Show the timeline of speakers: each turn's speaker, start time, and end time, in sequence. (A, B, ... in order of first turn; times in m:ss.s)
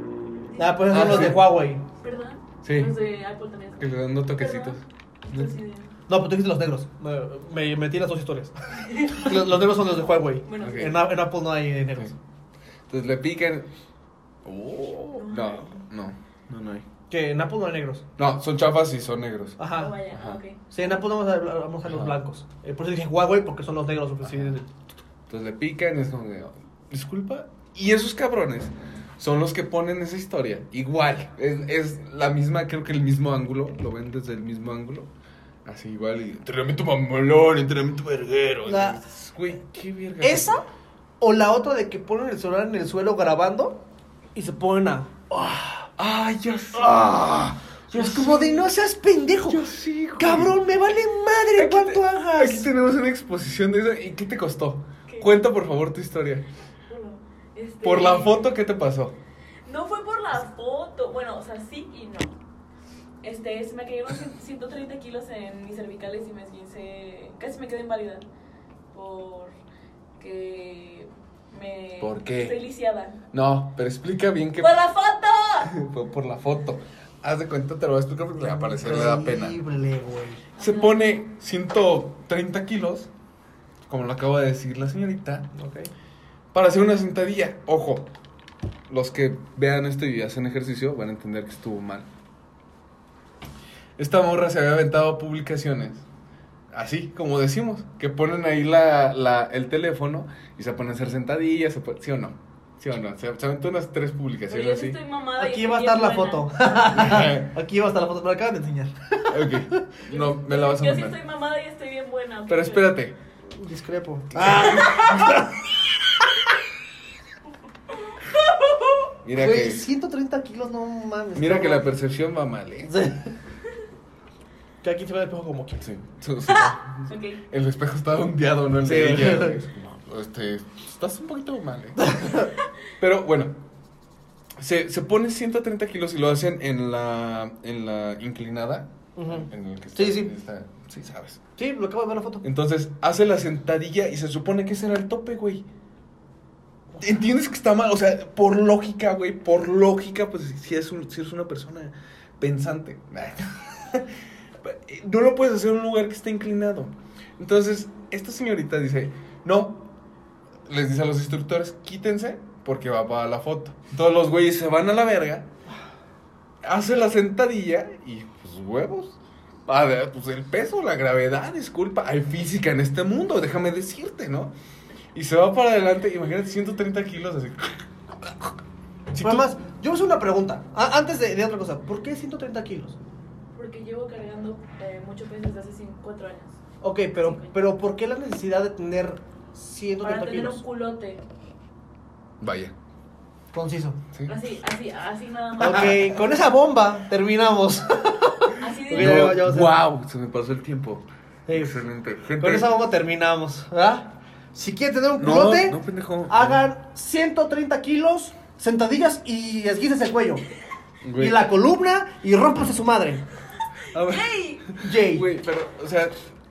0:00.4-0:05.9 A
0:00.6-0:01.8 B
0:00.9-0:01.5 C
0:02.6-0:03.0 C
0:03.8-0:05.5 C
0:06.1-0:12.1 B
0:08.8-0:09.3 A
0:10.4-0:10.9 A
0:10.6-0:11.0 C
0:12.9-0:13.7 C
0:14.4-0:16.8 C
0:15.1-0:15.8 A
0:17.1-0:18.0 B
0:18.2-0:20.4 C
0:19.6-0:19.9 B
0:19.7-0:20.8 A
0:20.7-0:24.7 B
0:21.8-0:22.2 C
0:24.2-0:24.5 C
0:25.3-0:35.1 C
0:35.6-0:40.6 C
0:38.6-0:39.0 B
0:40.2-0:40.6 B
0:41.2-0:43.8 B
0:44.3-0:45.9 B
0:46.0-0:48.7 C
0:47.9-0:49.6 B
0:49.4-0:50.6 C
0:50.2-0:52.7 B
0:51.6-0:56.4 C
0:56.9-0:58.5 A
0:57.8-0:59.1 C
0:59.6-1:02.3 A
1:03.2-1:08.2 A
1:08.9-1:09.6 A
1:10.2-1:13.2 A
1:12.0-1:12.6 C
1:13.3-1:14.8 C
1:14.6-1:15.7 A
1:15.6-1:19.6 C
1:18.4-1:20.4 B
1:20.6-1:21.0 A
1:20.6-1:23.1 C
1:23.8-1:25.5 C
1:25.5-1:25.9 B
1:26.5-1:28.1 C
1:28.9-1:32.1 C
1:34.0-1:36.0 C
1:36.7-1:45.0 C
1:44.5-1:47.0 A
1:45.4-1:50.0 B
1:46.9-1:47.5 C
1:49.3-1:51.2 C
1:50.1-1:53.0 A
1:52.5-1:53.2 C
1:53.5-1:55.6 B
1:54.3-1:55.2 C
1:59.2-1:59.9 C
1:59.3-2:01.9 B
2:01.3-2:03.0 C
2:02.9-2:03.3 B
2:04.8-2:05.9 B
2:05.8-2:12.2 C
2:07.1-2:07.4 A
2:08.8-2:09.6 B
2:12.0-2:12.5 B
2:13.0-2:13.6 C
2:14.6-2:21.4 C
2:19.2-2:20.3 B
2:21.6-2:22.4 B
2:22.4-2:25.6 C
2:27.0-2:39.9 C
2:40.7-2:45.5 C
2:46.6-2:54.5 C
2:55.1-2:58.6 C
2:59.1-2:59.5 C
2:59.2-3:03.0 B
3:03.5-3:06.6 A
3:06.8-3:10.6 B
3:07.2-3:07.5 A
3:10.0-3:11.2 A
3:12.4-3:12.7 C
3:13.5-3:14.0 B
3:14.2-3:16.1 A
3:15.6-3:19.7 B
3:15.6-3:16.0 C
3:18.6-3:19.4 A
3:18.9-3:22.7 C
3:21.5-3:21.8 B
3:22.4-3:30.4 B
3:25.2-3:26.6 C
3:31.0-3:31.4 C
3:31.2-3:33.2 B
3:33.9-3:34.7 A
3:33.9-3:34.3 C
3:34.7-3:35.3 B
3:34.9-3:36.1 C